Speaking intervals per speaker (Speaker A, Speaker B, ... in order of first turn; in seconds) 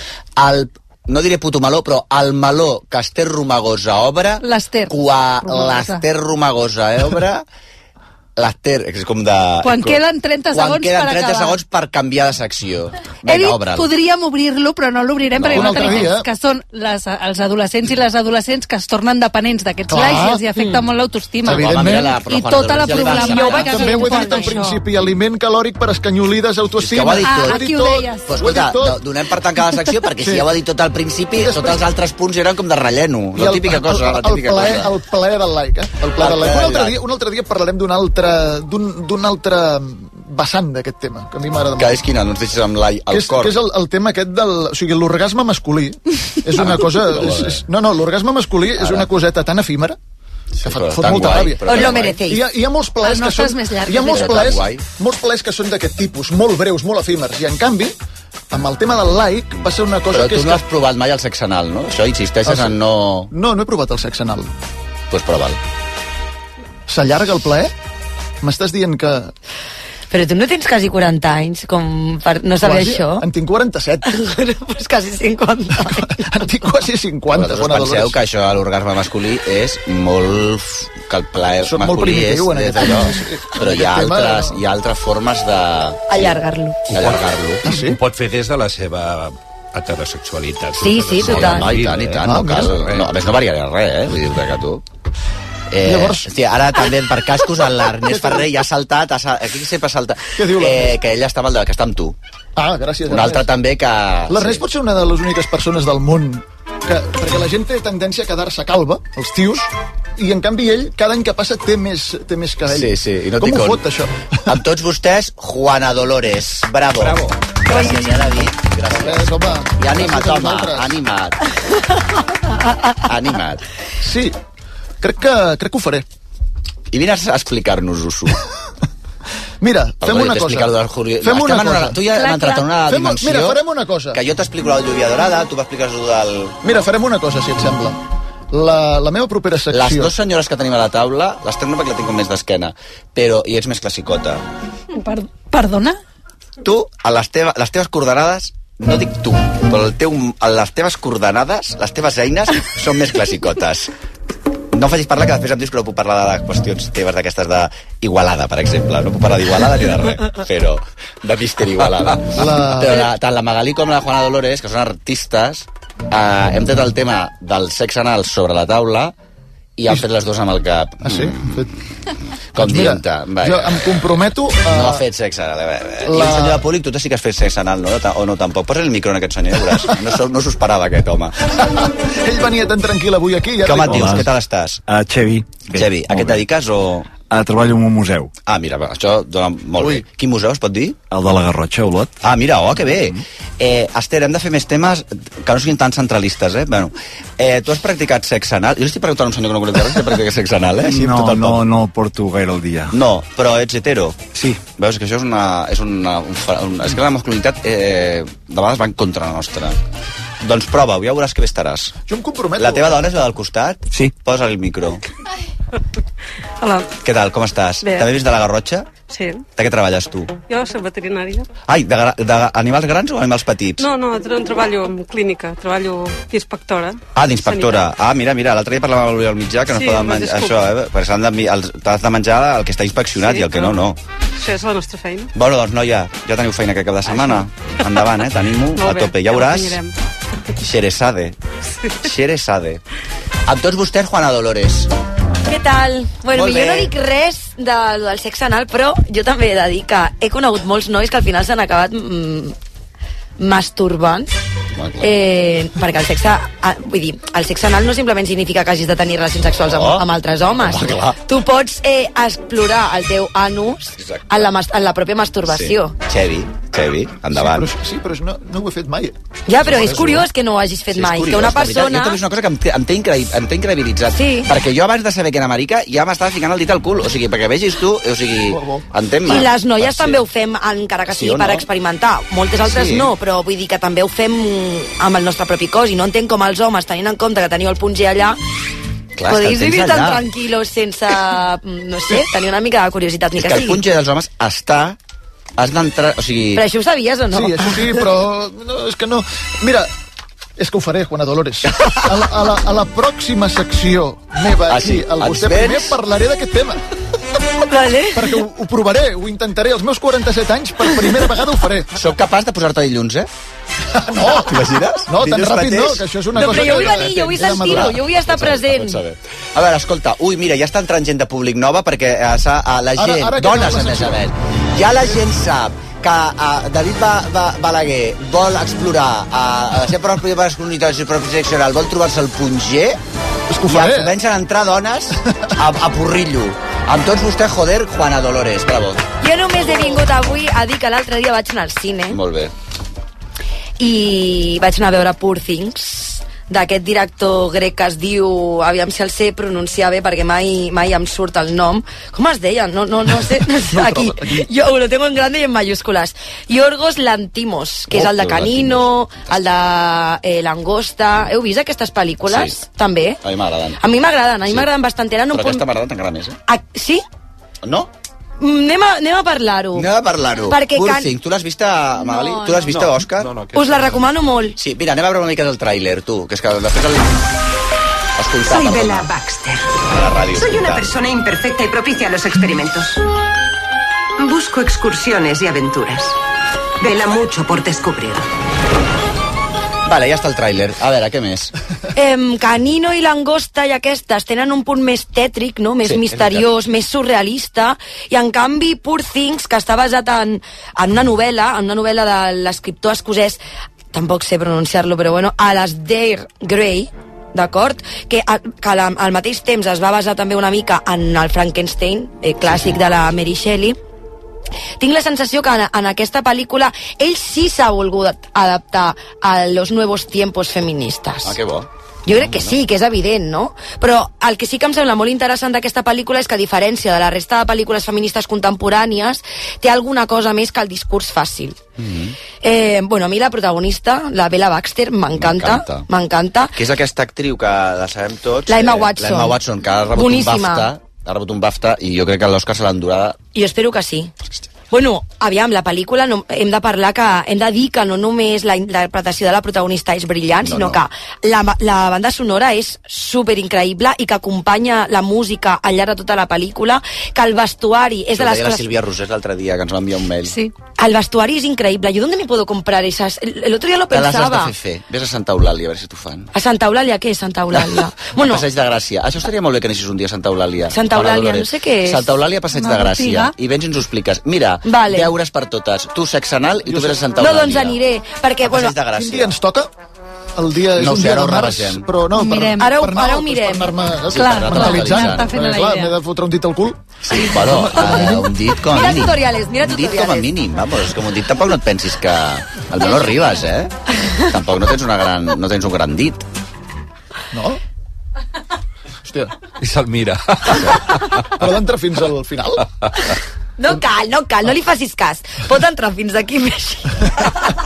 Speaker A: 0.4-7.5, 8.4-10.0, 10.5-13.9, 15.4-16.1, 21.4-23.9, 26.8-34.9, 36.2-37.0, 41.8-43.6, 46.5-47.6, 48.8-49.1, 50.6-52.2, 54.1-54.9, 60.1-63.3, 65.1-65.6, 77.3-86.4, 86.9-87.7, 91.2-94.8, 95.7-102.2, 103.1-104.6, 112.7-113.8, 114.5-121.4, 123.0-123.6, 126.9-128.4, 130.0-133.6, 134.1-136.6, 139.7-144.4, 146.6-153.9, 154.7-169.1, 169.8-171.6, 172.6-181.3, 183.6-184.8, 185.7-187.2, 188.5-191.0, 192.2-201.7, 202.9-209.8, 210.4-211.9, 212.6-215.0, 217.0-218.9, 219.6-220.3, 221.7-223.9, 227.2-234.0, 235.3-239.8, 240.6-241.4, 242.0-242.8, 243.5-244.9, 246.3-246.9, 254.8-255.1, 259.6-260.1, 260.6-261.2, 264.0-264.5, 265.5-267.7, 269.6-270.2, 270.9-280.2, 281.1-281.6, 282.6-283.1, 289.2-290.2, 293.4-295.0, 295.6-296.6, 304.7-306.0, 311.9-313.3, 314.2-333.0, 333.7-339.1, 339.7-339.9, 342.1-342.5, 357.9-359.3, 362.3-362.6, 363.2-363.8, 365.3-366.4, 367.6-367.9, 369.8-373.3, 374.6-377.2, 378.2-379.1, 379.9-380.9, 389.9-391.5, 395.9-396.4, 421.2-422.6, 431.8-432.2, 435.1-435.9, 436.6-443.3, 450.4-450.8, 458.1-460.4, 463.9-466.3, 468.1-477.8, 478.4-479.3, 480.8-481.9, 484.1-485.3, 487.0-493.7, 494.3-496.2
Speaker B: 4.4-6.0, 9.6-11.6, 13.3-24.8, 27.2-28.4, 53.0-54.5, 132.2-132.6, 144.9-146.0, 460.3-460.5, 472.5-473.3, 482.1-482.7, 484.1-486.0
Speaker C: 15.5-16.3, 19.9-20.5, 21.4-22.2, 23.3-29.0, 30.2-30.5, 31.4-31.8, 33.4-42.0, 43.1-50.0, 50.6-58.0, 58.5-60.6, 62.5-62.8, 63.3-64.5, 66.9-67.7, 68.4-69.3, 72.6-74.1, 75.8-78.2, 81.6-84.6, 87.7-88.0, 92.2-92.7, 95.8-96.3, 98.0-98.5, 100.4-101.0, 102.6-103.5, 104.3-114.2, 119.0-120.9, 124.0-124.3, 125.0-126.1, 129.6-132.0, 132.8-134.2, 136.6-140.1, 162.3-163.1, 171.0-171.7, 172.6-175.0, 176.1-176.7, 181.6-184.2, 212.1-213.1, 267.3-269.1, 278.5-278.9, 297.3-299.9, 300.6-306.8, 308.1-311.9, 314.0-318.1, 323.0-324.2, 333.5-334.1, 353.7-354.5, 476.7-477.1, 478.9-479.7, 480.4-488.3, 497.3-497.6, 499.1-499.3, 501.4-502.7
Speaker D: 51.6-52.4, 70.1-73.3, 74.1-76.4, 86.1-86.9, 90.8-91.7, 245.5-252.6, 253.4-254.3, 255.0-266.0, 269.5-272.2, 274.1-274.5, 279.2-288.4, 289.3-293.8, 296.5-298.0, 307.7-308.4, 316.4-319.0, 339.2-342.2, 343.8-363.2, 363.8-365.6, 366.5-367.0, 368.4-369.9, 370.5-371.1, 372.1-372.5, 373.5-374.6, 391.9-403.4, 403.9-413.8, 414.8-421.4, 422.1-431.6, 432.4-436.5, 438.5-439.4, 439.9-440.7, 443.3-444.1, 444.7-458.7, 460.8-464.5, 466.3-468.4, 470.7-472.1, 474.6-475.1, 477.2-478.9, 482.6-483.7, 488.6-490.3, 503.6-507.6
Speaker E: 86.9-93.1, 372.6-374.2, 499.6-501.4
Speaker F: 183.9-184.3, 184.9-186.4, 187.2-188.3, 191.1-192.2, 200.8-203.0, 204.3-204.6
Speaker G: 216.6-217.0, 217.8-218.1, 219.1-219.5, 220.5-221.5, 223.8-227.9, 229.7-230.6, 233.2-233.8, 234.4-235.3, 237.1-237.4, 238.8-239.9
Speaker H: 378.4-379.7, 380.3-383.0, 384.2-386.2, 386.8-388.3